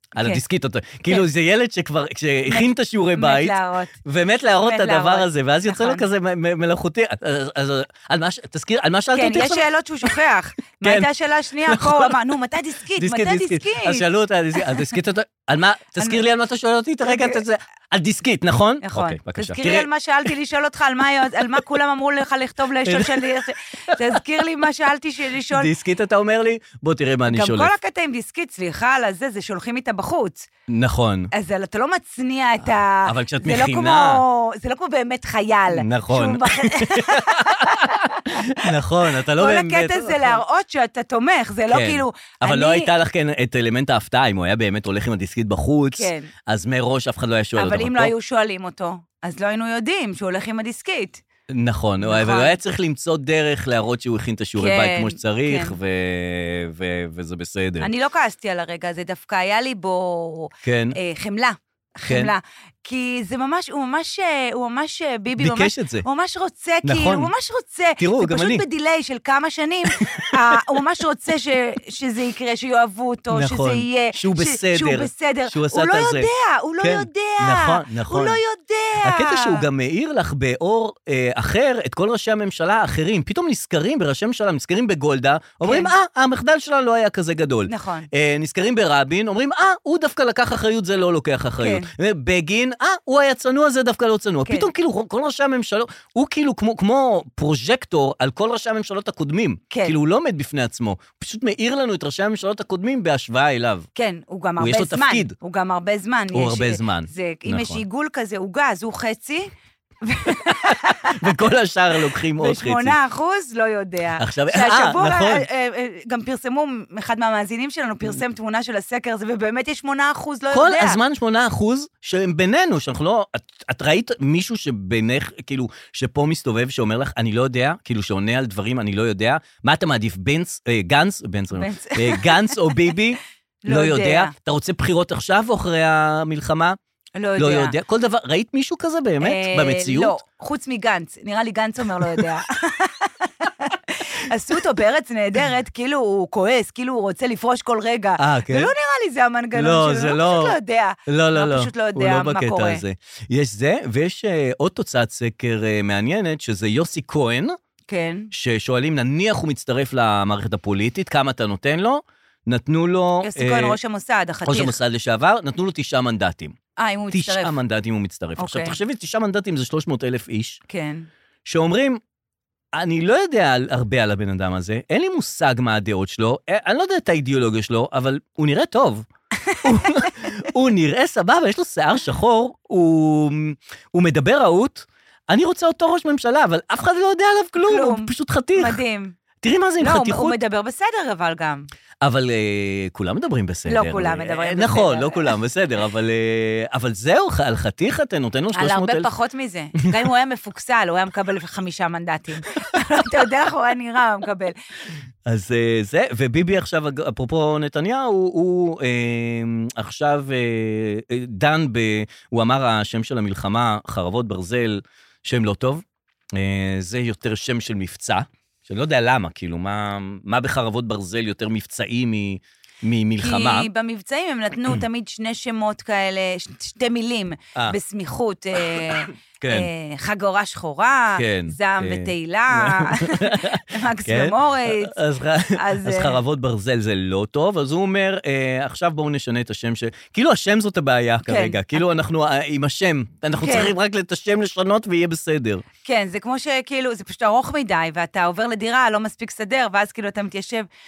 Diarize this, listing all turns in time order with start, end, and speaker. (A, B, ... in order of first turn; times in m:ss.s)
0:00.2-0:10.2 A
0:00.2-0:00.4 B
0:02.5-0:04.0 B
0:04.6-0:06.0 B
0:09.1-0:14.0 B
0:10.8-0:12.2 A
0:12.9-0:19.9 A
0:17.0-0:17.4 B
0:18.8-0:25.7 B
0:22.8-0:24.2 A
0:25.5-0:27.7 A
0:27.3-0:30.5 B
0:30.7-0:31.3 A
0:31.3-0:38.7 B
0:33.0-0:34.2 A
0:35.7-0:40.4 A
0:39.4-0:42.9 B
0:41.7-0:48.1 A
0:45.9-0:46.3 B
0:47.6-0:51.2 B
0:51.5-0:57.9 A
0:52.0-0:52.6 B
0:54.6-0:55.8 B
0:57.8-1:19.6 B
1:00.6-1:01.0 A
1:02.1-1:02.3 A
1:05.4-1:06.0 A
1:06.8-1:07.3 A
1:08.0-1:08.6 A
1:09.9-1:10.6 A
1:13.3-1:18.4 A
1:19.0-1:43.9 A
1:25.6-1:25.9 B
1:27.7-1:28.1 B
1:31.6-1:31.9 B
1:34.4-1:34.7 B
1:39.7-1:40.0 B
1:43.9-1:51.3 B
1:44.6-1:45.4 A
1:46.3-1:47.8 A
1:50.4-1:53.0 A
1:52.4-2:01.0 B
1:54.2-1:55.5 A
2:00.5-2:16.8 A
2:11.5-2:12.8 B
2:13.6-2:14.3 B
2:17.2-2:17.7 B
2:17.4-2:20.2 A
2:19.2-2:32.8 B
2:28.2-2:28.7 A
2:29.5-2:37.6 A
2:37.9-2:38.3 B
2:38.3-2:43.8 A
2:43.2-2:44.8 B
2:44.4-2:46.6 A
2:46.8-2:47.6 B
2:47.1-2:50.6 A
2:48.4-2:48.8 B
2:50.7-2:51.0 B
2:51.4-2:52.0 A
2:52.7-2:59.1 A
2:59.5-3:00.1 B
2:59.6-3:08.8 A
3:07.6-3:09.2 B
3:09.4-3:10.4 A
3:09.8-3:11.7 B
3:12.0-3:19.1 A
3:13.7-3:15.3 B
3:18.5-3:24.5 B
3:25.2-3:43.7 A
3:43.2-3:55.0 B
3:48.8-3:49.7 A
3:51.2-4:05.6 A
3:55.5-3:56.2 B
4:01.2-4:01.6 B
4:03.4-4:03.7 B
4:05.8-4:10.7 B